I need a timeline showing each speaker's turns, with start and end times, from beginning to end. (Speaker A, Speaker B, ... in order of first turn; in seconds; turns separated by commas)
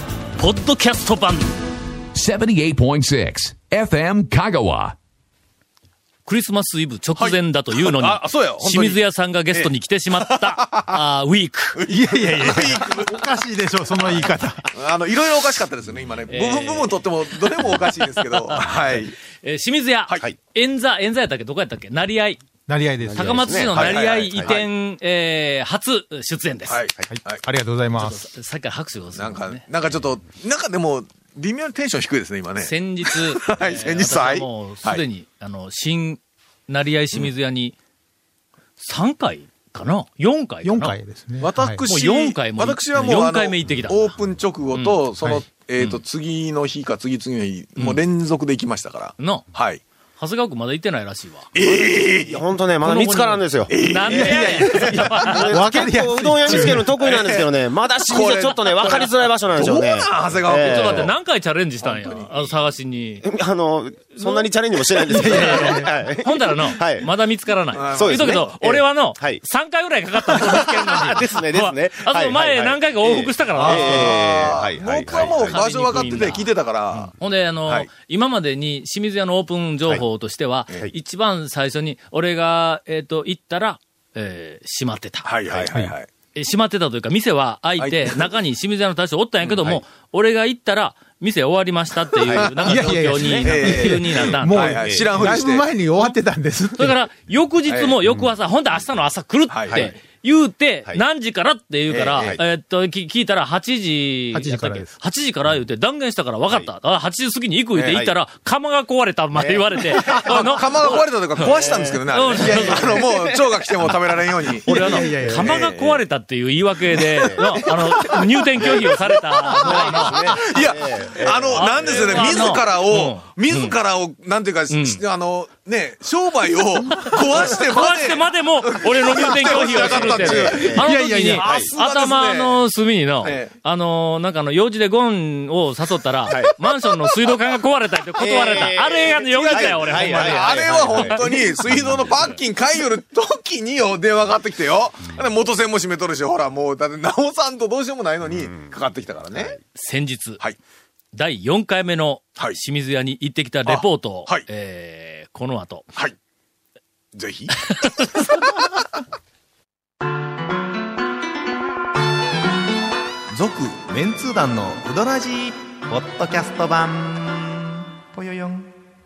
Speaker A: 0.4-1.5, Speaker B: 2.1-5.0, Speaker A: 6.2-11.8, Speaker C: 7.2-9.0, Speaker C: 9.5-11.0, Speaker C: 11.7-13.3, Speaker D: 11.9-14.7, Speaker C: 14.1-19.1, Speaker A: 16.3-22.4, Speaker D: 22.7-23.6, Speaker E: 23.0-24.5, Speaker A: 23.1-26.8, Speaker C: 23.7-24.7, Speaker C: 26.7-27.4, Speaker D: 27.1-28.2, Speaker A: 27.9-29.6, Speaker C: 29.1-35.0, Speaker A: 32.6-37.8, Speaker A: 38.8-41.0, Speaker D: 40.6-41.8, Speaker C: 41.4-49.8, Speaker A: 41.9-44.1, Speaker A: 49.2-49.4, Speaker A: 50.2-51.5, Speaker C: 51.5-52.4, Speaker E: 51.6-61.1, Speaker A: 52.9-55.6, Speaker D: 52.9-53.3, Speaker C: 53.7-55.2, Speaker D: 54.1-56.9, Speaker C: 56.5-57.5, Speaker C: 58.1-61.1, Speaker A: 60.5-63.2, Speaker C: 61.8-62.3, Speaker E: 63.2-67.1, Speaker A: 64.2-64.5, Speaker A: 65.1-74.2, Speaker D: 65.2-65.8, Speaker C: 67.7-68.4, Speaker E: 67.9-69.4, Speaker E: 70.2-75.6, Speaker C: 73.6-77.1, Speaker A: 75.1-85.3, Speaker C: 85.2-86.1, Speaker A: 86.3-94.7, Speaker C: 87.8-88.3, Speaker C: 92.3-96.1, Speaker D: 92.6-97.0, Speaker A: 96.8-113.0, Speaker C: 97.7-97.9, Speaker C: 99.5-99.9, Speaker C: 101.9-102.3, Speaker E: 102.0-102.4, Speaker D: 104.3-104.9, Speaker E: 107.8-108.1, Speaker E: 109.3-114.0, Speaker C: 110.0-116.0, Speaker A: 114.6-120.3, Speaker D: 114.7-115.5, Speaker E: 114.8-115.7, Speaker C: 117.0-117.3, Speaker E: 117.0-118.7, Speaker C: 117.9-118.7, Speaker E: 119.3-122.6, Speaker C: 119.7-132.6, Speaker A: 121.5-123.8, Speaker A: 124.7-125.0, Speaker A: 126.9-141.2, Speaker E: 129.4-130.9, Speaker D: 130.7-131.6, Speaker E: 131.4-131.7, Speaker C: 133.2-133.5, Speaker E: 136.2-136.5, Speaker E: 138.2-142.2, Speaker C: 139.3-149.6, Speaker A: 149.7-150.4, Speaker A: 151.1-155.9, Speaker C: 153.7-154.4, Speaker C: 157.1-158.8, Speaker A: 157.7-158.5, Speaker F: 163.3-168.7